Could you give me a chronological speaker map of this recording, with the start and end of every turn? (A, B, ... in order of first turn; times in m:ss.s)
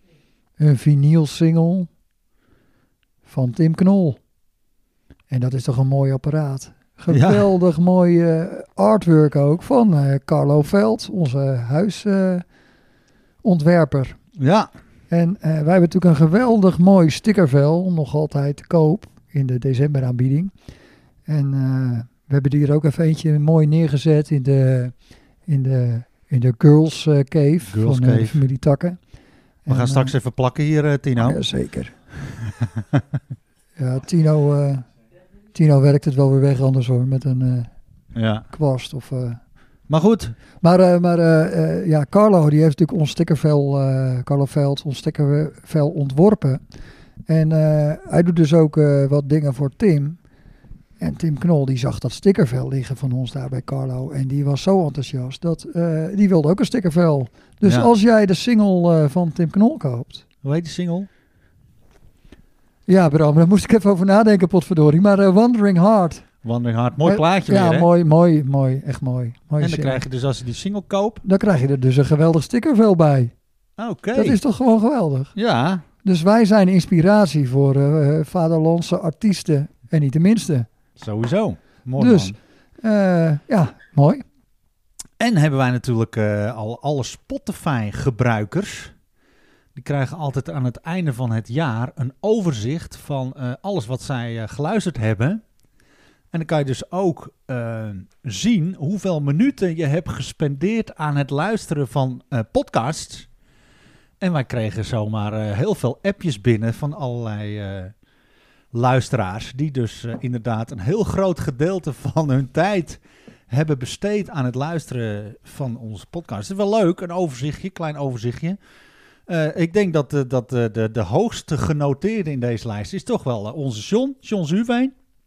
0:00.6-0:01.9 A
0:03.2-0:04.2 A
0:05.3-0:12.4 A
0:07.1-0:07.5 B
0:13.4-0:14.2 A
0:14.4-0:14.7 B
0:15.1-0:20.5 A
0:21.2-0:24.9 A
0:25.5-0:29.0 A
0:27.6-0:28.4 B
0:29.6-0:30.1 A
0:29.7-0:31.4 B
0:31.2-0:31.9 A
0:33.8-0:34.8 A
0:35.5-0:37.7 A
0:38.1-0:38.5 B
0:38.5-0:39.4 A
0:39.9-0:40.3 B
0:40.6-0:46.6 A
0:47.3-0:50.2 A
0:51.0-1:00.2 A
1:00.4-1:01.1 B
1:02.9-1:06.2 A
1:06.4-1:07.9 B
1:07.0-1:10.0 A
1:09.6-1:11.2 B
1:11.2-1:13.3 A
1:13.8-1:14.4 B
1:14.1-1:15.3 A
1:15.4-1:15.8 B
1:16.0-1:20.7 A
1:21.0-1:22.3 B
1:22.0-1:24.2 A
1:25.2-1:28.9 B
1:29.7-1:35.4 B
1:36.3-1:43.3 B
1:44.2-1:47.9 B
1:48.7-1:58.6 B
1:59.3-2:04.9 B